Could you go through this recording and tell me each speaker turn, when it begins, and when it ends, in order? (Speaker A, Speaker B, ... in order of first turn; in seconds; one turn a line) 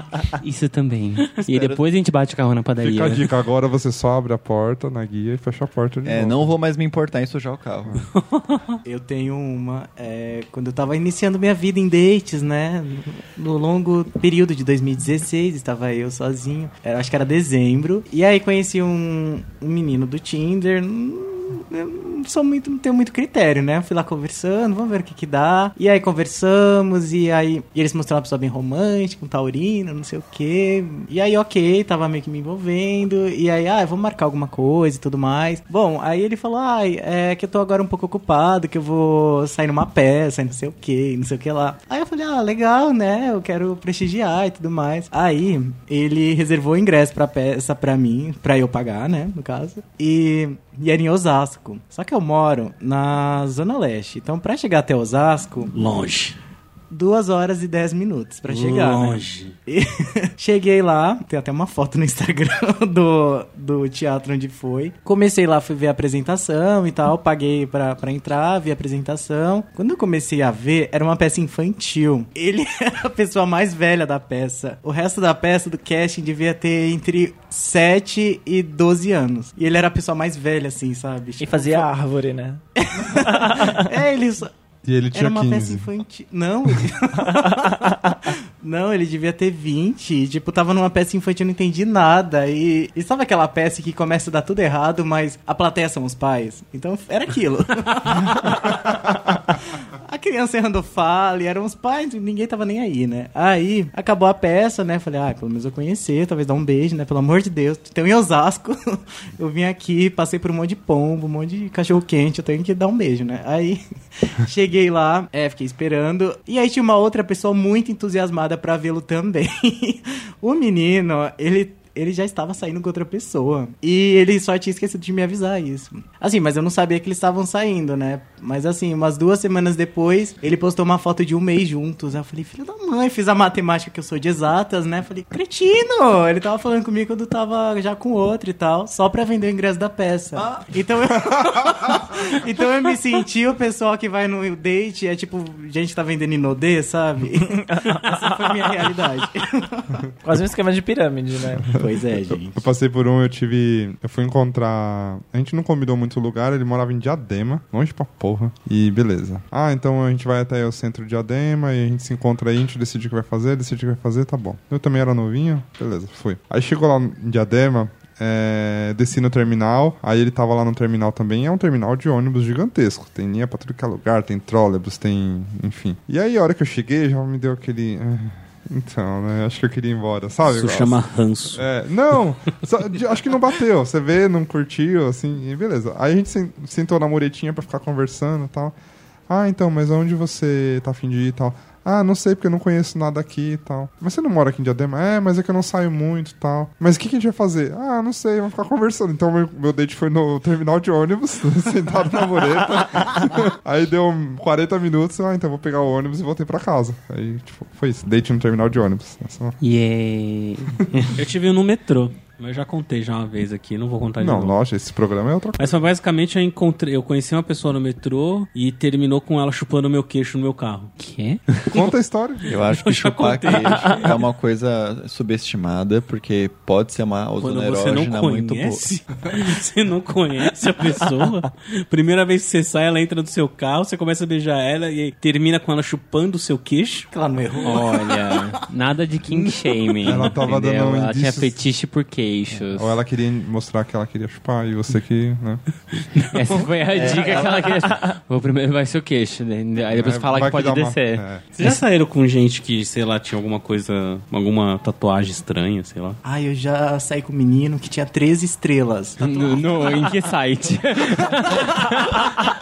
Speaker A: 0.4-3.3
Speaker B: 1.4-1.8
Speaker C: 2.8-6.5
Speaker B: 6.0-8.0
Speaker D: 8.2-8.8
Speaker E: 8.8-55.8
Speaker D: 55.7-56.4
Speaker E: 56.9-81.9
Speaker D: 58.5-59.5
Speaker F: 81.4-83.8
Speaker E: 82.8-84.5
Speaker C: 84.8-85.9
Speaker E: 85.1-150.0
Speaker F: 87.6-88.2
Speaker C: 141.3-141.9
Speaker F: 147.7-148.4
Speaker F: 150.2-151.6
Speaker C: 151.7-181.0
Speaker E: 151.8-152.6
Speaker D: 180.4-181.7
Speaker C: 181.5-188.7
Speaker C: 189.3-209.6
Speaker A: 209.6-211.2
Speaker D: 211.1-214.6
Speaker C: 214.2-215.7
Speaker D: 215.6-220.9
Speaker A: 221.0-221.5
Speaker C: 221.7-222.5
Speaker B: 222.4-228.9
Speaker D: 222.6-224.2
Speaker D: 227.4-237.1
Speaker E: 237.1-238.7
Speaker A: 237.6-243.0
Speaker C: 240.0-241.6
Speaker C: 242.7-245.6
Speaker D: 246.1-246.6
Speaker A: 246.3-251.8
Speaker B: 246.9-247.6
Speaker C: 249.9-251.5
Speaker D: 251.5-256.2
Speaker E: 256.2-259.5
Speaker A: 259.2-262.2